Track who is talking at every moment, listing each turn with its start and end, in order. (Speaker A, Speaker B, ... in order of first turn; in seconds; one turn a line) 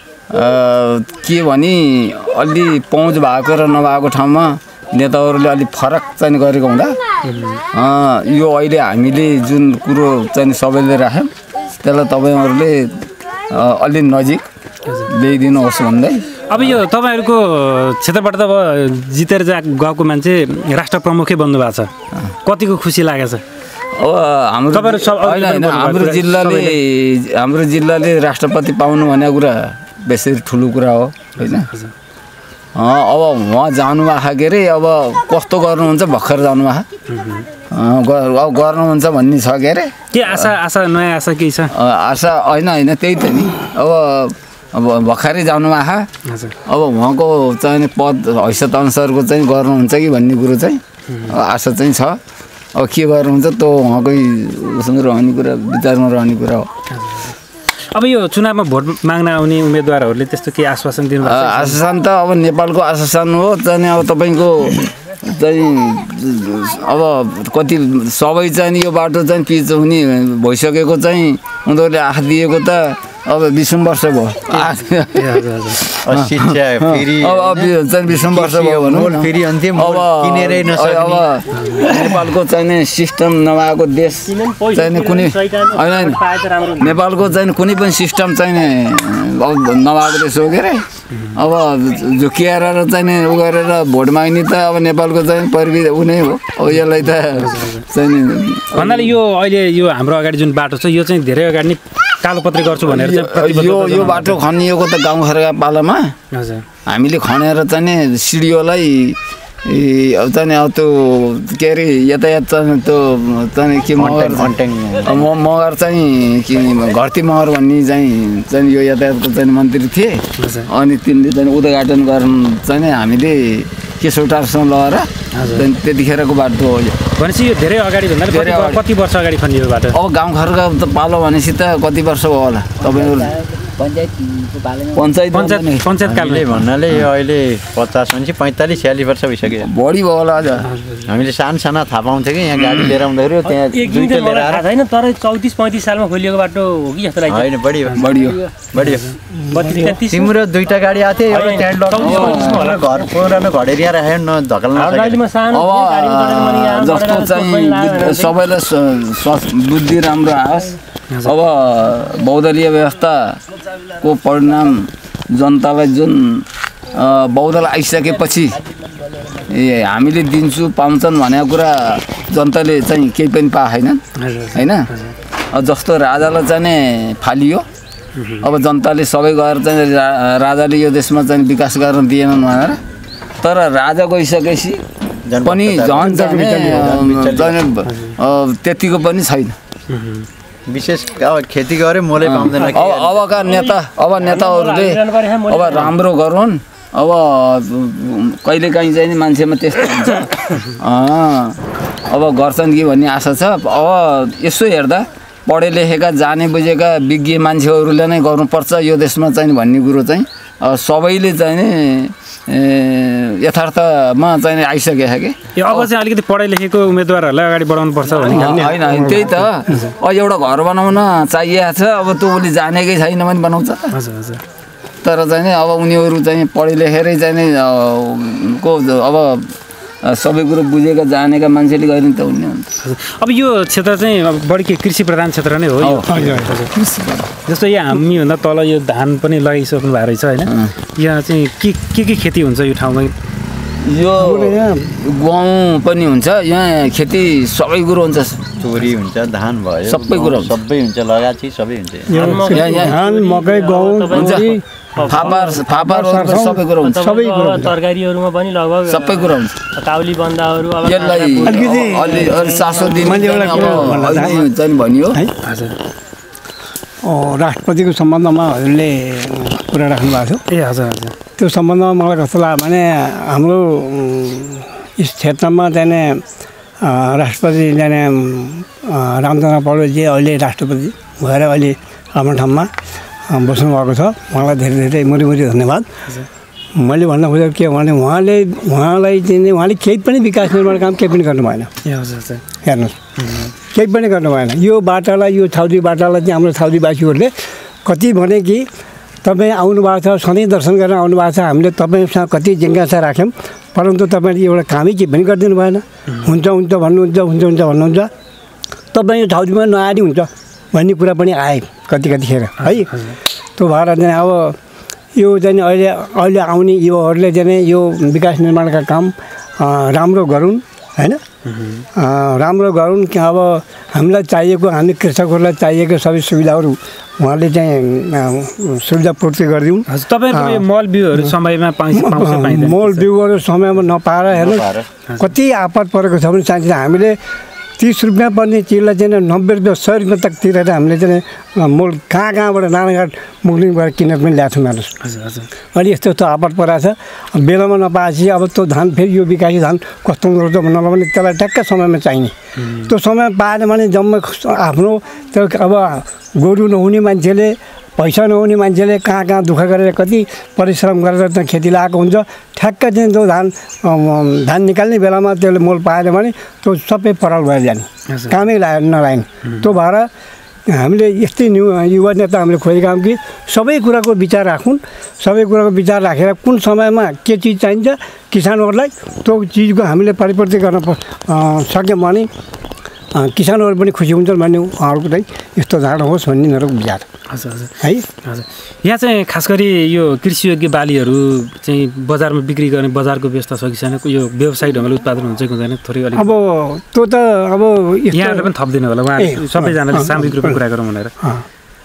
Speaker A: 0.3-7.0
Speaker B: 7.2-7.6
Speaker A: 7.7-14.4
Speaker A: 15.1-16.7
Speaker B: 16.5-21.9
Speaker B: 22.4-23.4
Speaker A: 23.9-31.7
Speaker B: 24.7-26.7
Speaker B: 31.5-31.9
Speaker A: 32.7-36.9
Speaker B: 37.1-37.5
Speaker A: 37.7-40.5
Speaker B: 40.1-41.7
Speaker A: 41.7-46.1
Speaker B: 46.2-46.5
Speaker A: 46.6-52.2
Speaker A: 52.7-56.7
Speaker B: 56.9-57.3
Speaker B: 57.9-61.8
Speaker A: 61.2-86.2
Speaker B: 75.1-75.8
Speaker C: 76.0-81.3
Speaker B: 81.5-81.8
Speaker D: 84.3-87.0
Speaker A: 86.8-99.1
Speaker B: 97.3-97.8
Speaker B: 98.7-104.4
Speaker A: 102.9-106.1
Speaker B: 106.3-106.6
Speaker A: 106.8-114.5
Speaker C: 114.0-115.2
Speaker A: 115.0-127.0
Speaker B: 120.4-120.7
Speaker B: 125.3-125.7
Speaker B: 127.2-130.0
Speaker A: 128.3-128.8
Speaker A: 129.9-135.9
Speaker B: 135.3-136.6
Speaker C: 136.0-139.7
Speaker A: 139.5-140.7
Speaker B: 140.6-141.1
Speaker C: 141.1-144.6
Speaker A: 142.6-142.9
Speaker D: 143.5-147.5
Speaker C: 147.2-148.1
Speaker A: 147.9-148.4
Speaker D: 148.1-148.7
Speaker C: 148.7-149.0
Speaker B: 148.8-149.1
Speaker E: 149.3-150.0
Speaker D: 149.6-150.3
Speaker C: 149.9-155.2
Speaker D: 151.2-153.1
Speaker A: 152.0-152.6
Speaker D: 154.7-158.3
Speaker A: 155.5-163.4
Speaker B: 161.1-161.3
Speaker A: 163.9-168.6
Speaker A: 169.5-174.0
Speaker B: 174.2-175.1
Speaker A: 174.5-174.9
Speaker A: 175.5-177.6
Speaker B: 178.2-178.5
Speaker A: 178.4-182.8
Speaker A: 183.4-184.8
Speaker C: 185.2-186.2
Speaker A: 185.4-189.6
Speaker E: 186.0-187.0
Speaker C: 186.9-187.7
Speaker B: 187.8-188.2
Speaker B: 189.9-190.3
Speaker C: 190.7-193.4
Speaker A: 192.2-215.9
Speaker D: 193.5-195.9
Speaker B: 215.5-218.6
Speaker A: 218.3-223.9
Speaker E: 218.3-219.5
Speaker B: 223.9-224.4
Speaker A: 225.0-229.5
Speaker A: 230.0-232.7
Speaker B: 232.8-236.7
Speaker A: 235.8-237.3
Speaker E: 236.1-236.6
Speaker B: 237.4-243.1
Speaker A: 240.5-240.7
Speaker A: 243.8-248.4
Speaker E: 244.2-244.9
Speaker C: 248.6-252.2
Speaker A: 249.8-250.6
Speaker E: 252.1-257.8
Speaker D: 252.2-254.4
Speaker A: 252.2-253.0
Speaker A: 254.1-254.5
Speaker D: 255.0-255.3
Speaker A: 255.1-257.0
Speaker D: 256.8-261.6
Speaker A: 258.9-259.6
Speaker A: 260.8-265.2
Speaker E: 261.4-264.4
Speaker D: 262.4-262.9
Speaker B: 265.4-265.7
Speaker E: 267.0-270.4
Speaker B: 270.5-271.1
Speaker E: 271.4-276.2
Speaker E: 276.8-282.7
Speaker E: 283.3-285.9
Speaker E: 286.8-291.7
Speaker B: 291.8-292.4
Speaker E: 292.6-292.9
Speaker B: 293.2-293.5
Speaker E: 293.7-297.3
Speaker E: 297.8-298.7
Speaker E: 299.2-308.1
Speaker E: 308.9-312.9
Speaker B: 312.6-313.1
Speaker E: 313.6-314.6
Speaker E: 315.1-321.2
Speaker B: 321.4-321.8
Speaker E: 321.9-330.6
Speaker B: 329.9-333.0
Speaker E: 331.9-334.6
Speaker C: 334.3-334.9
Speaker E: 335.2-337.2
Speaker E: 337.8-344.9
Speaker B: 345.0-345.5
Speaker E: 345.7-352.3
Speaker B: 352.6-352.9
Speaker E: 352.9-370.1
Speaker B: 368.1-368.4
Speaker B: 369.4-369.7
Speaker E: 370.7-382.3
Speaker E: 383.1-387.0
Speaker B: 387.3-387.7
Speaker E: 387.8-388.1
Speaker B: 388.2-396.3
Speaker E: 396.1-398.5
Speaker B: 398.1-401.1
Speaker E: 399.2-400.6